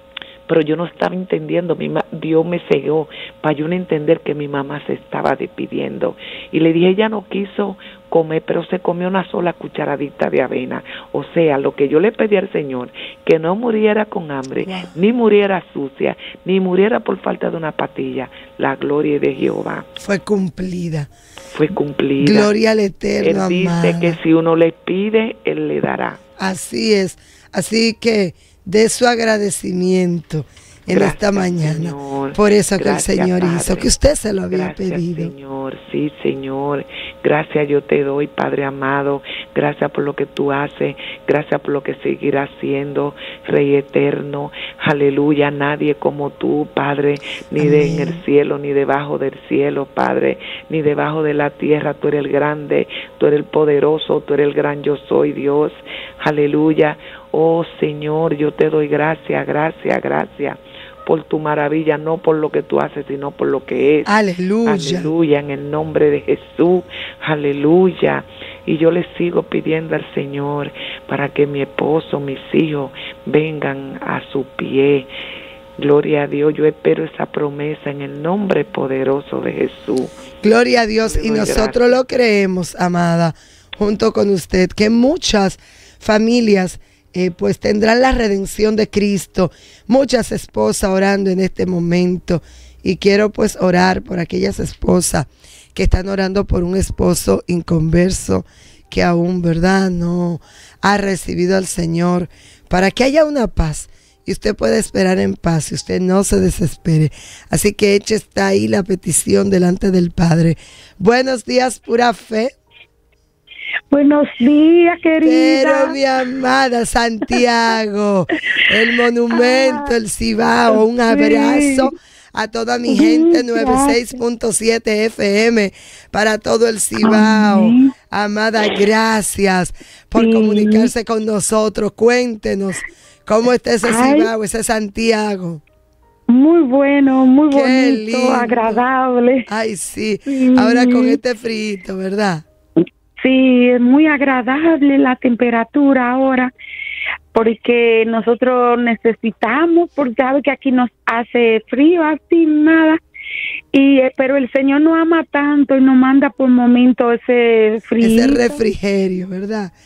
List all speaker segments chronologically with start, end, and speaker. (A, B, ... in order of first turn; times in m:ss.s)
0:00.5-0:19.9 A
0:14.6-0:15.0 B
0:20.0-0:21.1 B
0:21.5-0:22.5 A
0:22.2-0:24.2 B
0:23.2-0:26.2 A
0:26.4-0:35.3 B
0:30.9-0:33.9 A
0:34.5-1:04.1 A
0:47.6-0:48.2 B
1:04.1-1:05.1 B
1:04.7-1:15.1 A
1:15.8-1:20.1 A
1:20.4-1:52.5 B
1:21.0-1:22.0 A
1:53.9-1:56.0 C
1:55.2-2:15.6 B
1:59.4-1:59.9 C
2:01.1-2:01.9 C
2:02.9-2:04.0 C
2:07.0-2:07.9 C
2:10.2-2:10.9 C
2:13.8-2:14.3 C
2:16.3-2:19.4 C
2:17.5-2:18.8 B
2:19.5-2:22.4 B
2:20.3-2:21.2 C
2:23.2-2:26.5 C
2:27.3-2:33.0 C
2:33.7-2:38.6 C
2:38.0-2:39.7 B